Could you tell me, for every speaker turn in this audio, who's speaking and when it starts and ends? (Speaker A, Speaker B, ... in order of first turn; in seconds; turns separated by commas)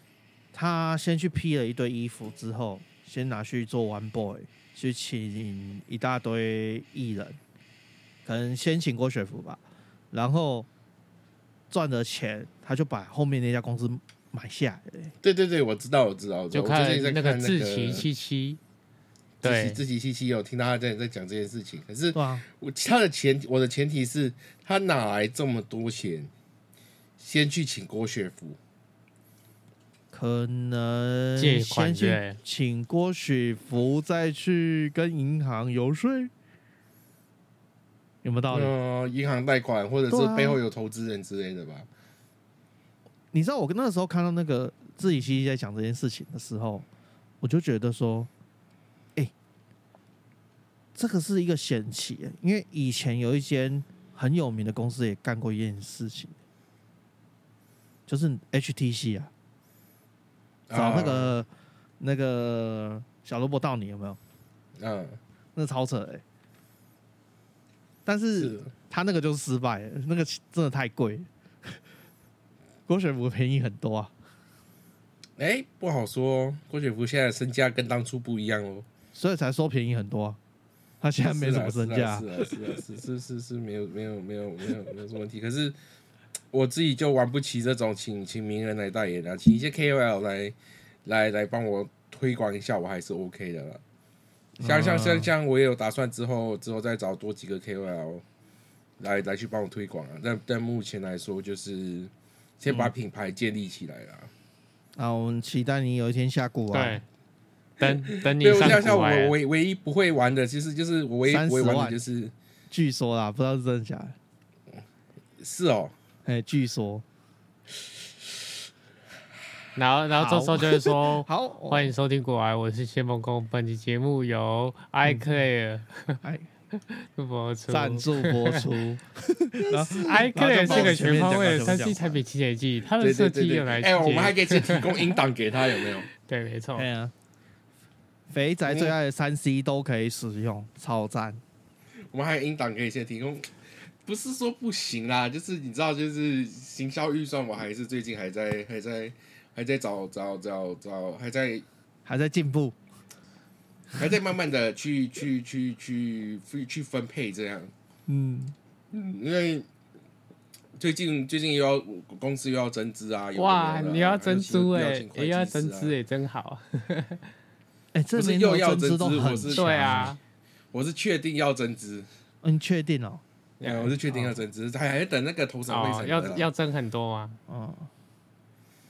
Speaker A: 0.5-7.4, Speaker A: 8.2-10.7, Speaker A: 11.7-15.1, Speaker B: 15.2-18.1, Speaker C: 16.5-18.6, Speaker C: 19.4-19.8, Speaker B: 19.4-26.3, Speaker A: 22.1-22.4, Speaker B: 27.2-28.6, Speaker A: 30.1-36.3, Speaker C: 31.4-32.4, Speaker A: 38.2-38.7, Speaker B: 38.5-41.9, Speaker A: 40.1-40.6, Speaker A: 43.3-46.9, Speaker A: 47.4-48.3, Speaker A: 50.9-56.3, Speaker A: 58.1-59.3, Speaker B: 60.7-61.3, Speaker A: 60.7-61.5, Speaker A: 62.0-64.2, Speaker B: 64.8-65.2, Speaker A: 65.5-66.2, Speaker A: 68.0-71.8, Speaker B: 68.4-68.7, Speaker A: 72.9-74.1, Speaker B: 75.4-78.8, Speaker A: 79.1-80.4, Speaker A: 81.0-82.8, Speaker B: 81.2-85.8, Speaker B: 86.5-93.8, Speaker A: 94.6-95.3, Speaker B: 94.6-98.2, Speaker B: 99.0-104.3, Speaker A: 102.7-102.9, Speaker A: 105.0-107.0, Speaker C: 106.7-107.0, Speaker C: 107.8-109.3, Speaker B: 107.8-112.3, Speaker A: 108.6-108.8, Speaker A: 111.2-112.0, Speaker A: 112.7-114.2, Speaker B: 115.4-115.9, Speaker A: 116.2-117.0, Speaker C: 119.8-126.2, Speaker A: 120.1-121.9, Speaker A: 125.0-125.3, Speaker C: 126.8-128.7, Speaker A: 127.7-132.2, Speaker B: 129.6-131.8, Speaker C: 130.1-135.2, Speaker B: 133.0-136.1, Speaker C: 136.1-136.9, Speaker A: 136.8-137.1, Speaker A: 138.3-141.4, Speaker B: 138.7-138.9, Speaker B: 142.1-143.5, Speaker B: 144.0-151.6, Speaker A: 152.1-152.8, Speaker B: 153.9-157.7, Speaker A: 158.1-158.5, Speaker B: 158.9-159.7, Speaker B: 160.8-165.9, Speaker C: 163.3-167.2, Speaker A: 167.9-170.1, Speaker B: 168.2-170.1, Speaker C: 169.5-170.2, Speaker B: 170.7-172.1, Speaker A: 172.4-173.2, Speaker C: 173.6-173.9, Speaker B: 173.6-176.5, Speaker C: 175.7-177.4, Speaker A: 177.5-177.9